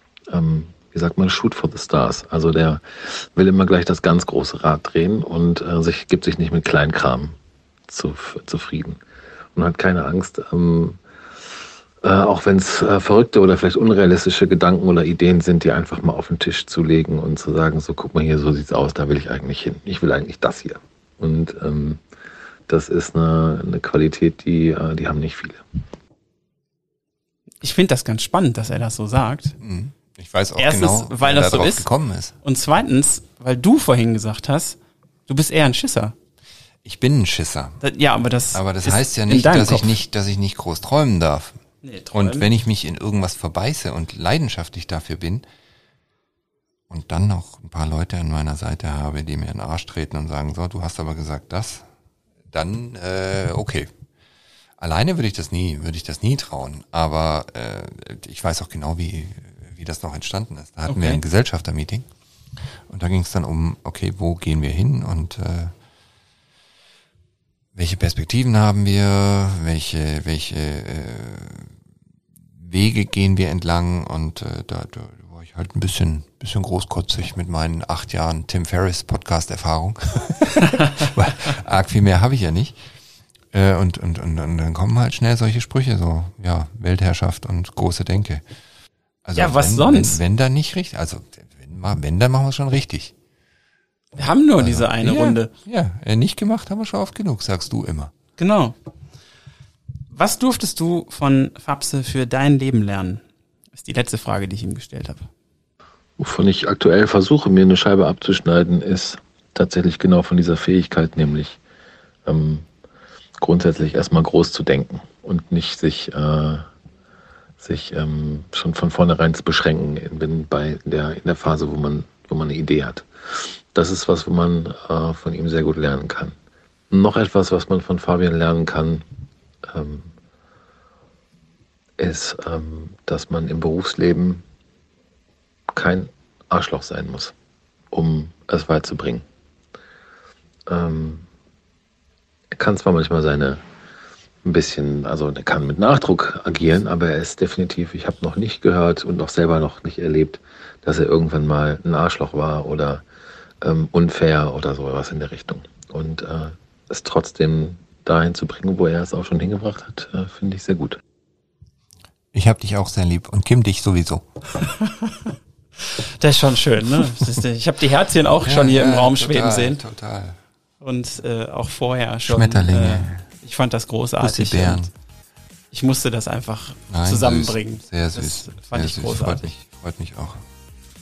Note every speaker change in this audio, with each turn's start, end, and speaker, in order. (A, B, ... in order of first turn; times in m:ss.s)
0:00.3-0:07.4 A
0:07.9-0:09.0 A
0:09.5-0:11.0 A
0:12.0-0:22.0 A
0:22.7-0:25.6 A
0:27.6-0:29.6 B
0:29.6-0:32.3 C
0:30.6-0:31.8 B
0:32.4-0:34.8 B
0:35.3-0:36.1 B
0:36.8-0:37.8 C
0:37.8-0:39.9 B
0:38.5-0:41.6 C
0:41.8-0:42.5 B
0:42.1-0:45.4 C
0:46.9-0:51.9 C
0:52.5-0:53.9 C
0:54.8-1:02.1 C
1:00.9-1:01.2 B
1:02.9-1:05.7 C
1:07.7-1:11.7 C
1:12.6-1:22.8 C
1:23.5-1:28.4 C
1:29.2-1:33.1 C
1:29.4-1:30.2 B
1:34.1-1:35.5 B
1:34.6-1:38.1 C
1:38.4-1:38.8 B
1:40.1-1:43.2 B
1:43.7-1:45.3 B
1:46.2-1:51.6 A
1:52.2-1:52.6 A
1:53.4-1:56.7 A
1:57.6-2:06.4 A
2:06.9-2:09.0 A
2:09.6-2:10.1 A
2:12.0-2:14.4 A
2:15.7-2:17.3 A
2:17.9-2:19.2 A
2:20.7-2:21.2 A
2:22.5-2:23.6 A
2:24.4-2:33.0 A
2:33.6-2:41.0 A
2:42.3-2:44.2 C
2:44.6-2:49.8 B
2:48.4-2:50.4 C
2:50.8-2:54.9 B
2:52.3-2:53.2 C
2:54.2-2:54.9 C
2:55.7-2:59.5 B
2:56.9-3:00.4 C